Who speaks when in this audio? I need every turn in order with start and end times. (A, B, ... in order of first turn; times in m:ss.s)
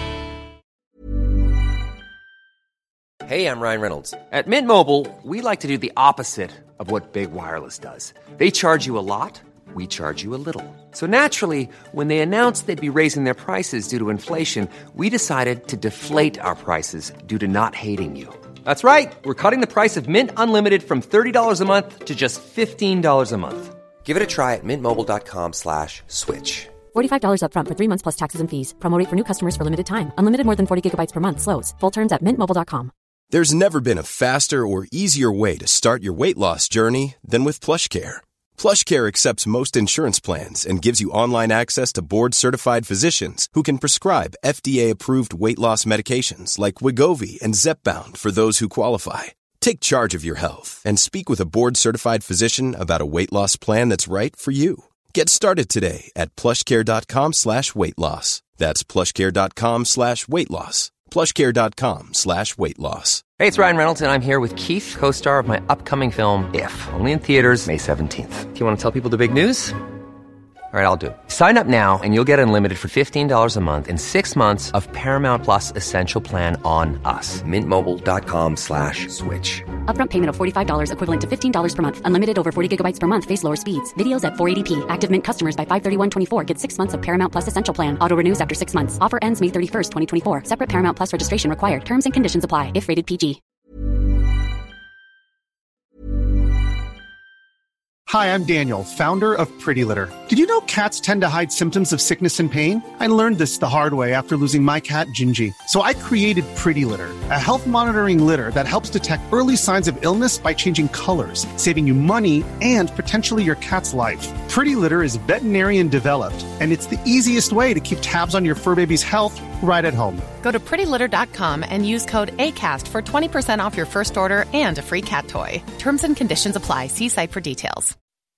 0:03.2-0:26.7 A
0:26.9-0:32.9 B
0:33.3-1:03.3 C
1:03.4-1:09.8 A
1:10.7-1:19.6 A
1:19.8-1:33.4 B
1:38.1-2:00.3 D
2:00.4-2:07.9 E